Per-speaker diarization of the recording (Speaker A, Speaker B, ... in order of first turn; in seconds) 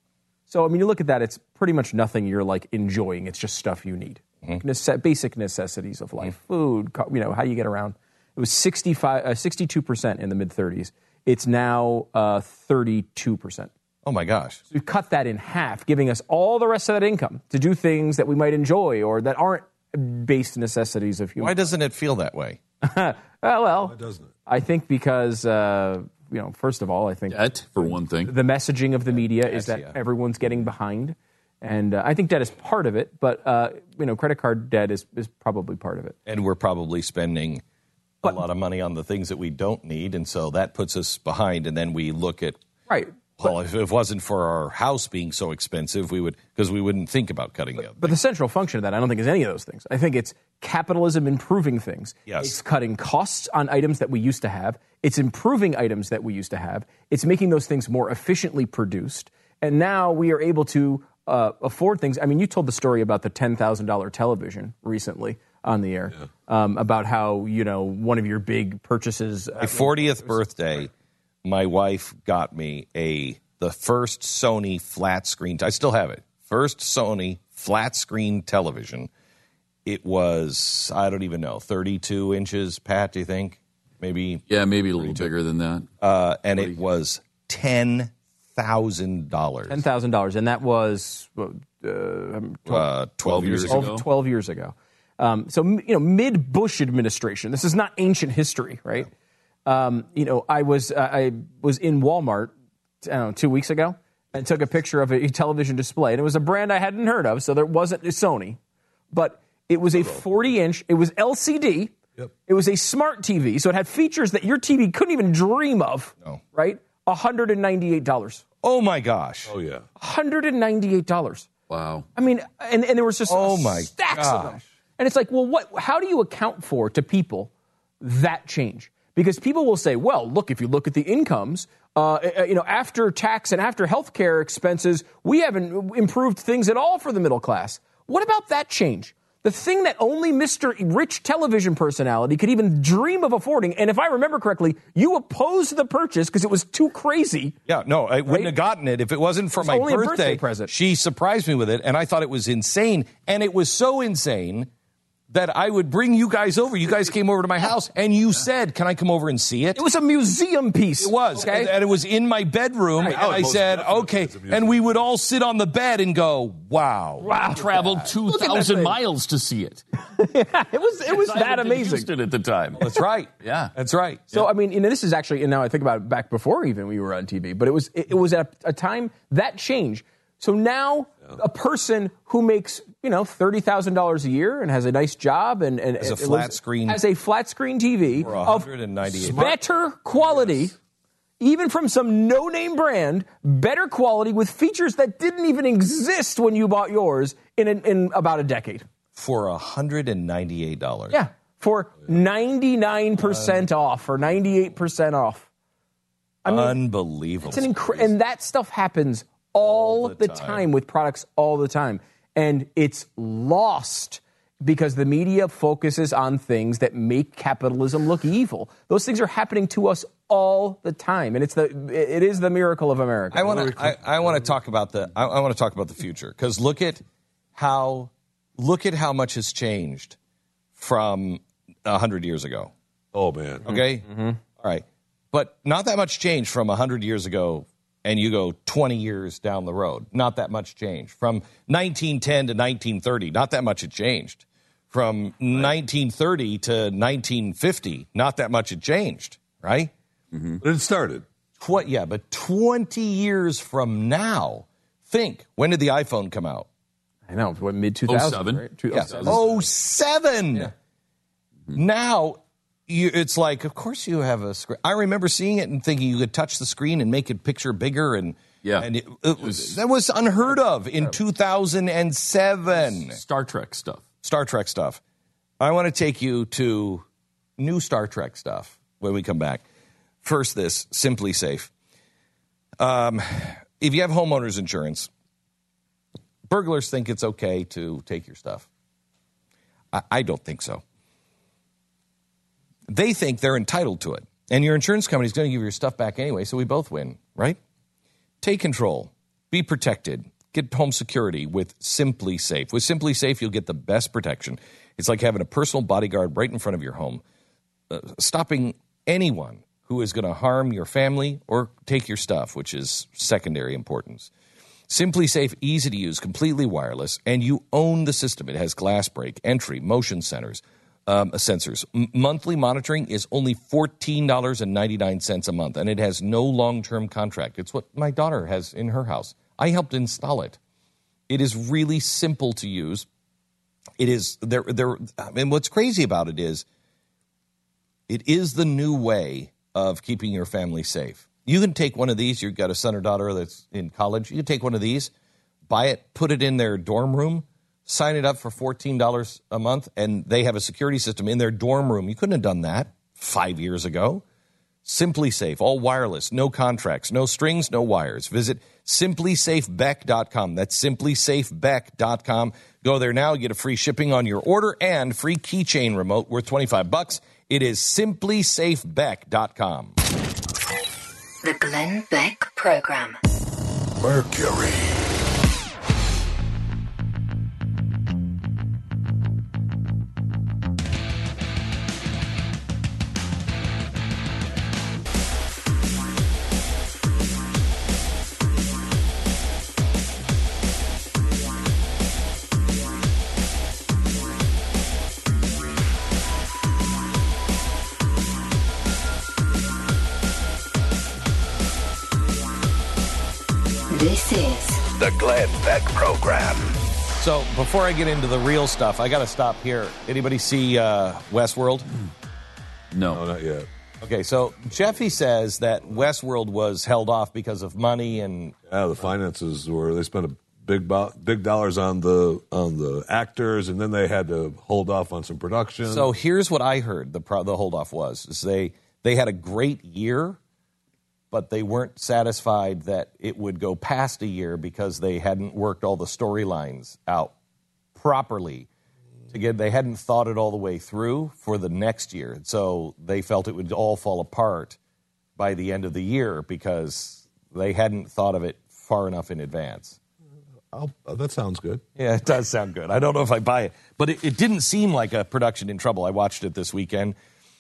Speaker A: 0.5-13.7, 14.7-21.6, 22.8-36.1, 42.9-43.5, 48.0-70.4, 89.7-92.9, 93.7-99.1, 99.7-102.5, 103.0-108.6, 109.1-111.9, 112.5-118.4, 120.0-121.5, 122.2-147.6, 148.3-148.5, 149.6-150.7, 159.7-161.8, 167.3-168.9, 170.1-172.1, 174.3-188.7, 189.2-190.7, 191.4-198.8, 201.1-205.5, 206.4-206.8, 207.4-223.7, 233.7-234.4, 257.3-259.4
Speaker B: 14.0-14.6, 21.4-22.6, 29.4-30.0, 36.2-37.6, 38.2-42.6, 43.4-48.1, 52.3-52.6, 69.6-70.9, 71.4-79.1, 79.8-84.4, 85.0-85.3, 86.0-89.8, 92.7-93.9, 118.6-119.5, 123.3-124.6, 147.7-154.7, 155.3-159.8, 161.0-167.3, 172.8-174.2, 186.0-187.0, 188.2-189.5, 199.1-201.2, 206.4-208.1, 209.6-210.6, 223.3-227.0, 227.6-230.2, 230.8-232.7, 233.6-234.1, 234.6-249.9, 251.6-256.7, 258.9-260.7, 261.7-273.2, 274.2-275.0, 275.6-277.1, 277.6-279.6, 280.2-281.7, 282.8-285.1, 286.5-288.7, 289.9-290.8, 292.9-297.6, 298.4-307.2, 307.9-314.3, 314.9-330.6, 331.3-333.1, 334.0-336.6, 338.1-345.1, 345.7-354.2, 354.8-370.0, 407.2-411.9, 414.0-418.6, 425.8-430.4, 431.3-437.3, 437.9-438.7, 439.3-444.8, 445.4-450.0, 452.0-457.2
Speaker C: 23.8-24.3, 110.0-110.2, 119.5-119.8, 163.0-165.0, 189.1-189.6, 190.2-190.5, 223.3-224.0, 233.1-233.7, 250.6-251.2, 413.1-413.7, 418.7-426.1, 450.7-451.8
Speaker D: 27.3-28.3, 84.5-85.9, 93.2-94.0, 121.7-122.1, 167.2-169.8, 171.1-172.9, 173.4-173.7, 250.3-250.6, 258.1-259.7, 268.6-269.8, 272.8-274.1, 412.9-413.2
Speaker E: 371.4-373.2, 403.9-404.8
Speaker F: 374.0-374.9, 405.0-406.8